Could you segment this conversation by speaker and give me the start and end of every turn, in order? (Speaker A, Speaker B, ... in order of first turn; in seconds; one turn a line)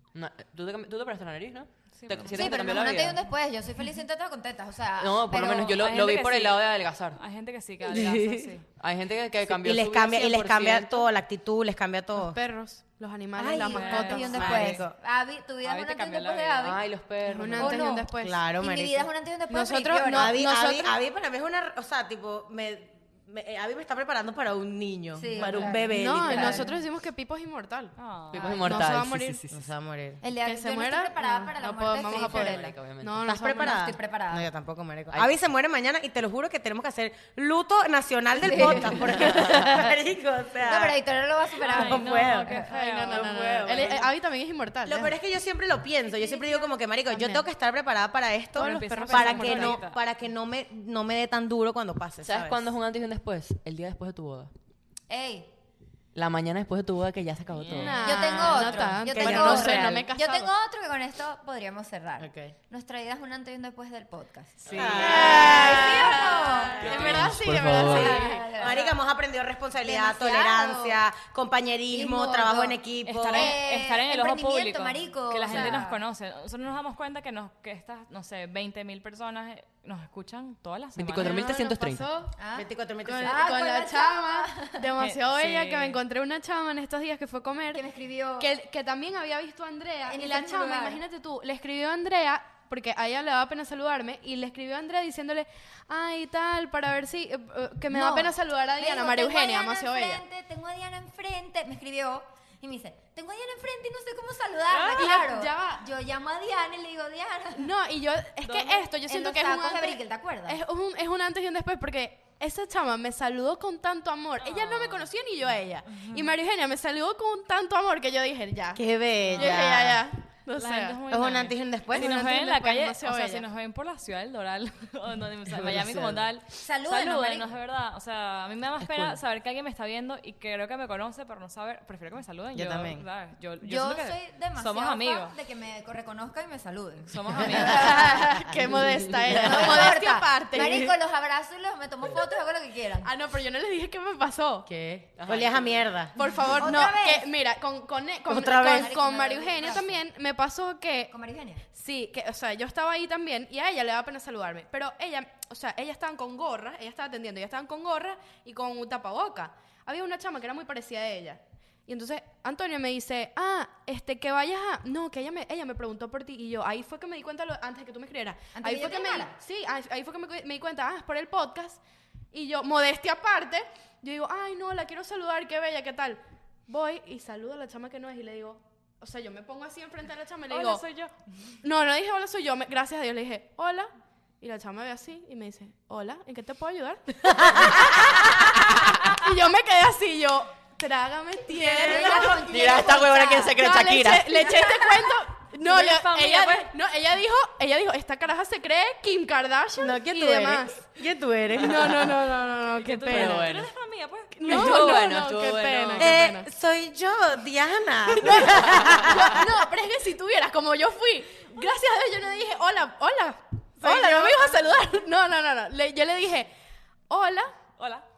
Speaker A: 0.1-3.2
Speaker B: 1.9-2.5
Speaker C: 2.3-5.8
Speaker A: 5.0-7.2
Speaker B: 5.7-8.6
Speaker D: 7.8-8.5
Speaker A: 8.8-11.1
Speaker D: 9.5-12.3
Speaker E: 12.1-14.8
Speaker C: 13.4-16.8
Speaker B: 13.7-14.8
Speaker D: 14.2-14.9
Speaker B: 15.6-16.8
Speaker A: 16.6-17.8
Speaker E: 17.2-18.4
Speaker C: 17.6-20.4
Speaker D: 18.2-19.1
Speaker E: 19.5-20.9
Speaker D: 20.1-26.7
Speaker C: 25.1-26.8
Speaker E: 25.4-27.9
Speaker B: 28.0-28.5
Speaker A: 28.3-29.6
Speaker C: 28.3-28.9
Speaker E: 28.6-29.4
Speaker D: 29.5-30.2
Speaker C: 30.2-32.8
Speaker E: 30.4-33.8
Speaker A: 32.1-33.4
Speaker D: 33.2-41.0
Speaker C: 33.6-34.4
Speaker C: 38.3-39.9
Speaker C: 40.6-42.6
Speaker D: 41.6-42.6
Speaker B: 41.6-44.0
Speaker E: 42.5-45.1
Speaker D: 43.1-44.1
Speaker D: 44.9-52.7
Speaker E: 46.1-47.5
Speaker B: 48.5-50.0
Speaker E: 48.6-49.8
Speaker A: 52.2-54.5
Speaker C: 55.1-55.5
Speaker A: 56.1-58.6
Speaker B: 57.5-58.1
Speaker E: 57.7-60.5
Speaker C: 57.8-69.0
Speaker D: 59.1-60.0
Speaker D: 62.2-62.5
Speaker B: 64.6-65.7
Speaker D: 64.7-66.2
Speaker E: 65.0-68.5
Speaker A: 66.8-68.2
Speaker D: 66.8-67.2
Speaker D: 67.8-73.5
Speaker C: 69.8-71.0
Speaker C: 71.9-76.0
Speaker B: 73.0-81.5
Speaker A: 75.5-75.8
Speaker A: 81.0-82.0
Speaker E: 81.2-82.3
Speaker C: 82.3-82.7
Speaker D: 82.5-83.4
Speaker E: 83.0-100.2
Speaker C: 83.2-84.9
Speaker B: 85.0-86.0
Speaker C: 87.7-88.5
Speaker C: 90.1-91.0
Speaker C: 97.9-107.7
Speaker B: 104.7-105.1
Speaker E: 104.9-105.9
Speaker E: 107.5-118.8
Speaker B: 108.5-108.9
Speaker C: 109.0-110.6
Speaker B: 114.4-115.1
Speaker B: 115.9-116.3
Speaker D: 118.7-120.0
Speaker B: 119.2-119.6
Speaker E: 119.4-121.0
Speaker B: 120.5-135.3
Speaker D: 121.0-122.1
Speaker E: 122.0-123.4
Speaker D: 125.5-126.2
Speaker C: 126.5-127.5
Speaker D: 128.8-129.2
Speaker D: 132.5-133.0
Speaker C: 133.6-138.5
Speaker B: 137.1-137.8
Speaker E: 137.5-141.0
Speaker C: 139.3-143.1
Speaker D: 139.4-139.9
Speaker E: 143.0-144.7
Speaker D: 144.7-146.2
Speaker A: 145.2-145.9
Speaker E: 146.2-151.1
Speaker C: 146.5-147.3
Speaker D: 148.3-148.9
Speaker C: 148.7-150.0
Speaker C: 151.1-151.6
Speaker E: 151.7-171.8
Speaker C: 168.5-169.3
Speaker E: 172.3-180.8
Speaker B: 180.5-181.6
Speaker E: 181.6-183.9
Speaker E: 184.4-192.6
Speaker A: 188.1-189.0
Speaker C: 191.5-193.6
Speaker A: 192.1-194.3
Speaker E: 193.6-200.9
Speaker C: 194.4-195.0
Speaker B: 195.6-196.7
Speaker D: 199.8-202.2
Speaker E: 201.5-203.6
Speaker B: 202.8-205.0
Speaker A: 203.1-203.7
Speaker E: 204.3-206.5
Speaker A: 204.4-206.2
Speaker D: 206.0-209.5
Speaker E: 208.1-216.5
Speaker D: 213.8-214.5
Speaker E: 217.1-217.6
Speaker B: 217.8-218.1